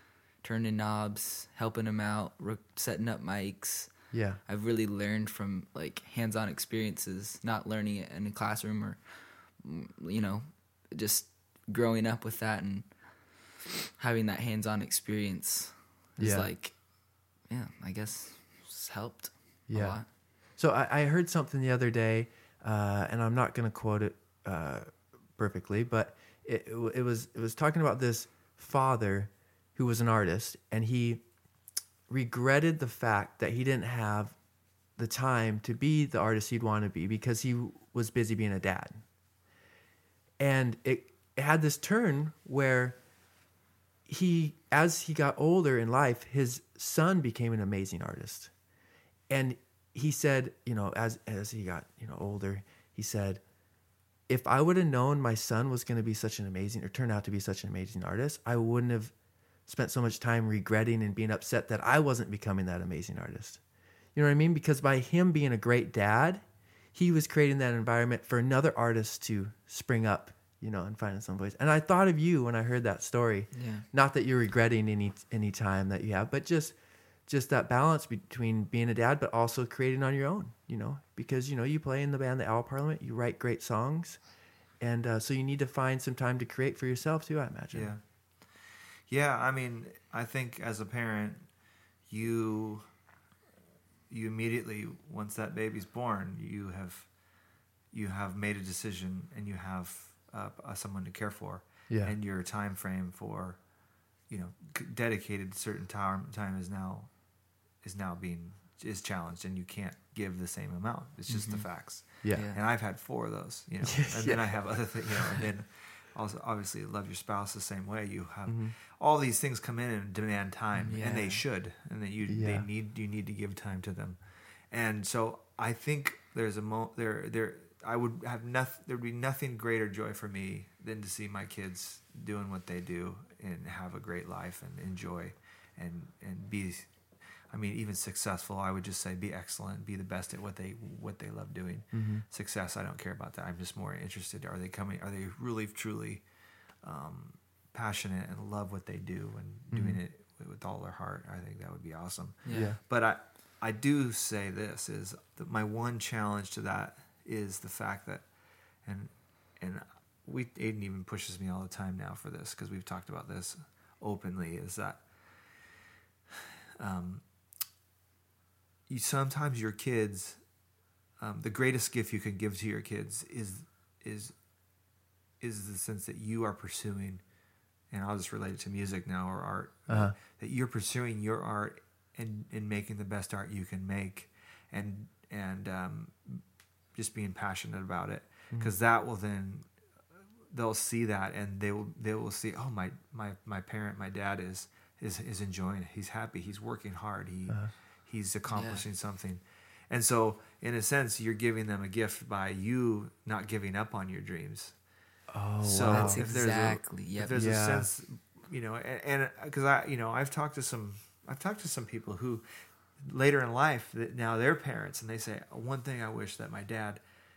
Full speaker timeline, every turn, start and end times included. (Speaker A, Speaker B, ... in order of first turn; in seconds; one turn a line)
Speaker A: 0.4-3.9
Speaker B: 4.1-4.4
Speaker A: 4.5-12.9
Speaker A: 13.9-16.8
Speaker B: 16.2-16.5
Speaker A: 17.5-20.1
Speaker B: 19.7-31.2
Speaker B: 32.1-34.4
Speaker B: 35.0-39.0
Speaker B: 40.4-43.0
Speaker B: 44.0-48.5
Speaker B: 49.3-53.4
Speaker B: 54.3-59.1
Speaker B: 59.7-63.6
Speaker B: 64.1-76.8
Speaker A: 73.5-73.8
Speaker B: 77.3-84.2
Speaker B: 84.8-87.9
Speaker C: 87.7-91.5
Speaker C: 92.1-92.8
Speaker C: 94.1-97.1
Speaker C: 97.9-103.6
Speaker B: 101.9-102.1
Speaker C: 104.3-107.1
Speaker C: 107.8-136.9
Speaker A: 111.3-111.7
Speaker A: 112.3-112.6
Speaker B: 113.8-114.5
Speaker B: 118.5-118.7
Speaker A: 120.8-121.4
Speaker B: 122.3-122.7
Speaker C: 137.5-146.2
Speaker B: 141.9-142.2
Speaker C: 146.8-158.3
Speaker B: 149.7-150.0
Speaker A: 152.4-152.7
Speaker B: 152.5-152.8
Speaker C: 158.8-165.0
Speaker C: 166.8-167.2
Speaker C: 168.9-170.4
Speaker C: 171.2-174.3
Speaker C: 175.4-177.2
Speaker C: 177.9-186.4
Speaker B: 179.9-180.2
Speaker C: 186.9-189.7
Speaker C: 190.5-204.7
Speaker A: 198.5-198.8
Speaker B: 205.3-206.2
Speaker C: 205.6-212.4
Speaker A: 205.9-207.3
Speaker B: 207.3-207.9
Speaker C: 213.0-217.0